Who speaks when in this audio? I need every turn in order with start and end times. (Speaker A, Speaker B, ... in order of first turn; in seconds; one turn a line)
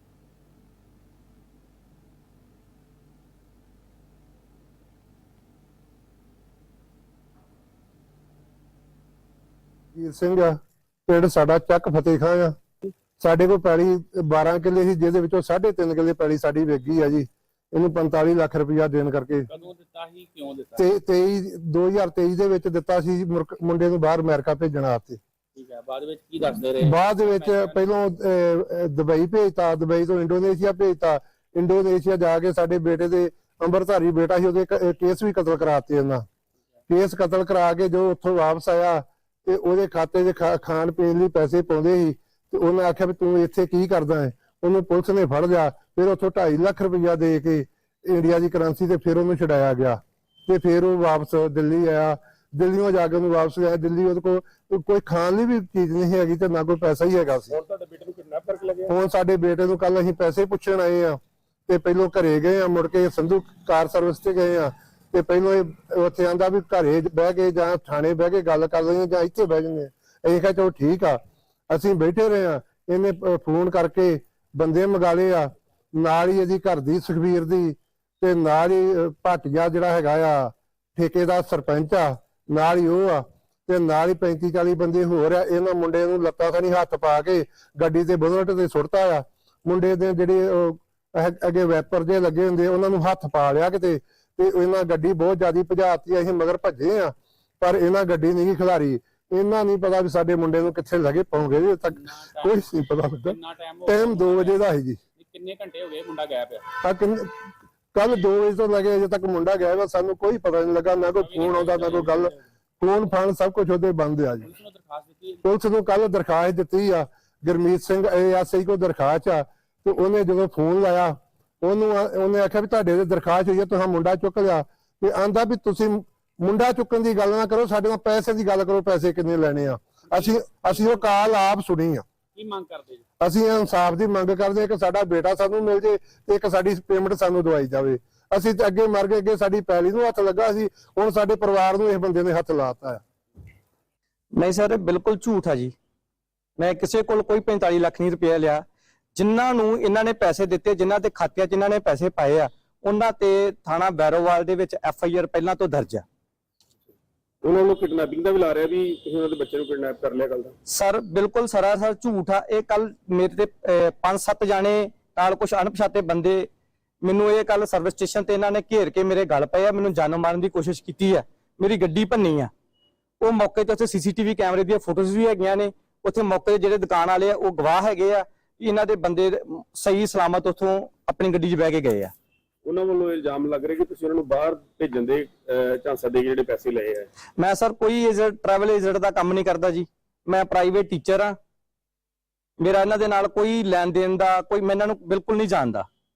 Speaker A: 9.9-12.6
Speaker A: 13.2-19.5
Speaker B: 19.5-20.9
Speaker A: 20.8-25.2
Speaker B: 25.5-27.8
Speaker A: 26.8-36.2
Speaker A: 36.9-57.6
Speaker C: 57.5-58.9
Speaker A: 58.9-71.2
Speaker A: 71.7-103.3
Speaker B: 101.9-102.7
Speaker B: 103.2-104.6
Speaker A: 103.9-105.0
Speaker B: 105.1-106.7
Speaker A: 106.8-107.4
Speaker A: 107.9-114.5
Speaker B: 111.1-112.4
Speaker B: 114.4-115.4
Speaker A: 115.4-132.0
Speaker B: 130.1-131.0
Speaker B: 132.3-133.0
Speaker A: 133.2-143.0
Speaker D: 144.3-145.7
Speaker D: 146.6-148.6
Speaker D: 149.1-156.0
Speaker C: 157.4-160.5
Speaker D: 160.7-166.5
Speaker D: 167.0-172.5
Speaker D: 173.2-182.1
Speaker C: 182.6-187.1
Speaker D: 187.4-191.3
Speaker D: 192.6-195.9